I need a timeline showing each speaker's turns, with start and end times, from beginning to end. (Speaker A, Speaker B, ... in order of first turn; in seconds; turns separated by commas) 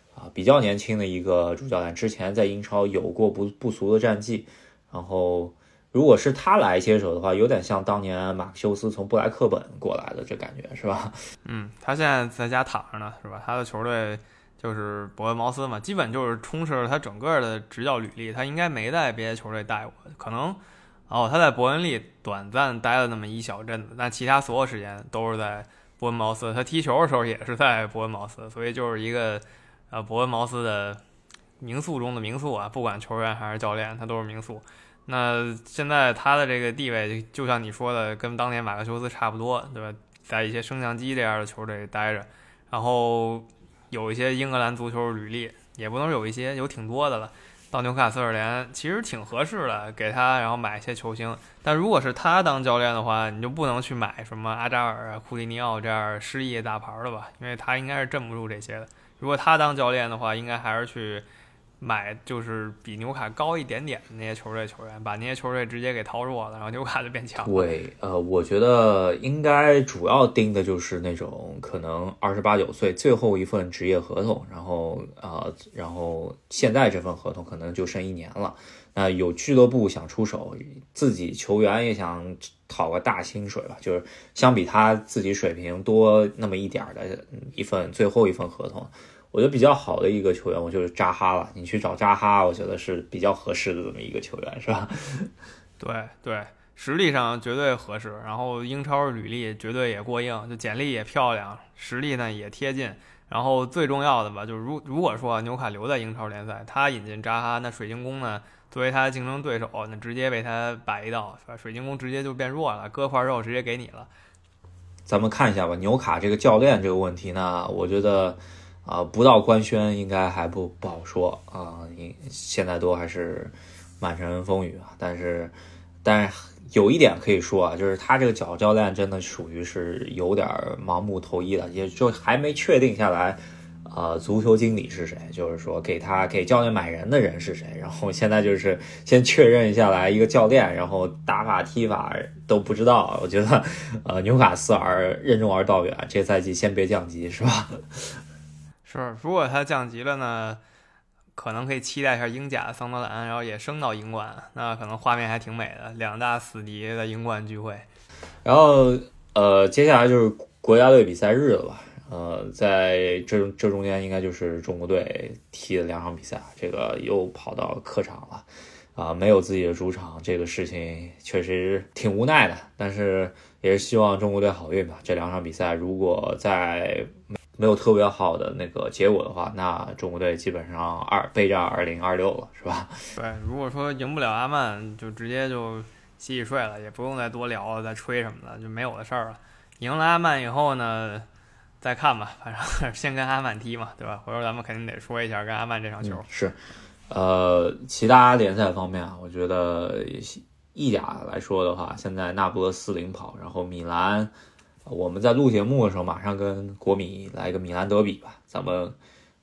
Speaker A: 0.2-11.2, Speaker B: 11.4-31.0, Speaker B: 31.6-61.2, Speaker B: 61.8-67.7, Speaker A: 67.4-95.3, Speaker B: 95.8-114.1, Speaker A: 115.1-147.8, Speaker B: 148.8-150.6, Speaker B: 151.3-157.9, Speaker A: 158.4-182.9, Speaker B: 183.2-191.3, Speaker B: 191.8-196.2, Speaker A: 196.0-196.6, Speaker A: 197.1-204.3, Speaker A: 204.9-209.0